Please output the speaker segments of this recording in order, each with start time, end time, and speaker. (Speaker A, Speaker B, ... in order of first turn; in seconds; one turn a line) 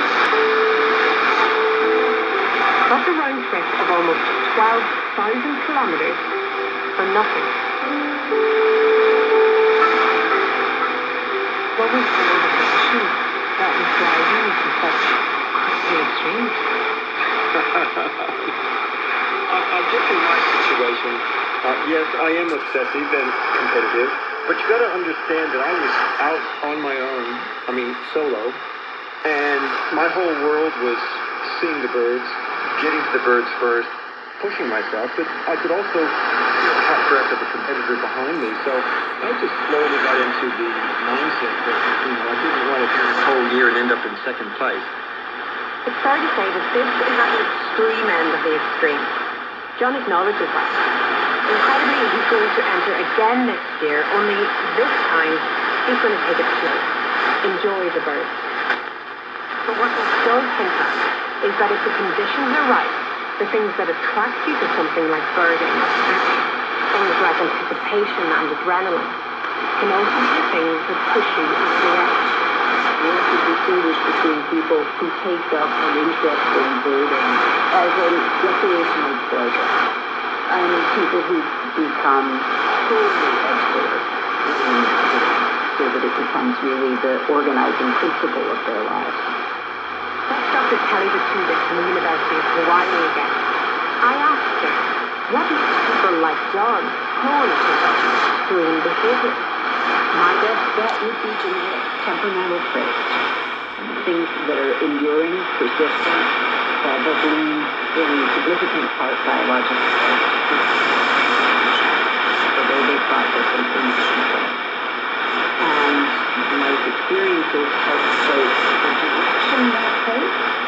Speaker A: 2.9-6.3
Speaker A: 6.9-7.6
Speaker A: 11.8-16.7
Speaker B: 17.5-18.5
Speaker B: 19.5-28.6
Speaker B: 29.2-44.9
Speaker A: 45.8-49.2
Speaker A: 49.8-50.9
Speaker A: 51.5-58.5
Speaker A: 59.6-69.2
Speaker A: 69.8-72.4
Speaker C: 73.0-79.8
Speaker C: 80.5-89.3
Speaker A: 90.3-93.4
Speaker A: 94.0-99.5
Speaker C: 100.1-103.2
Speaker C: 103.8-111.8
Speaker C: 112.5-114.6
Speaker C: 115.6-120.4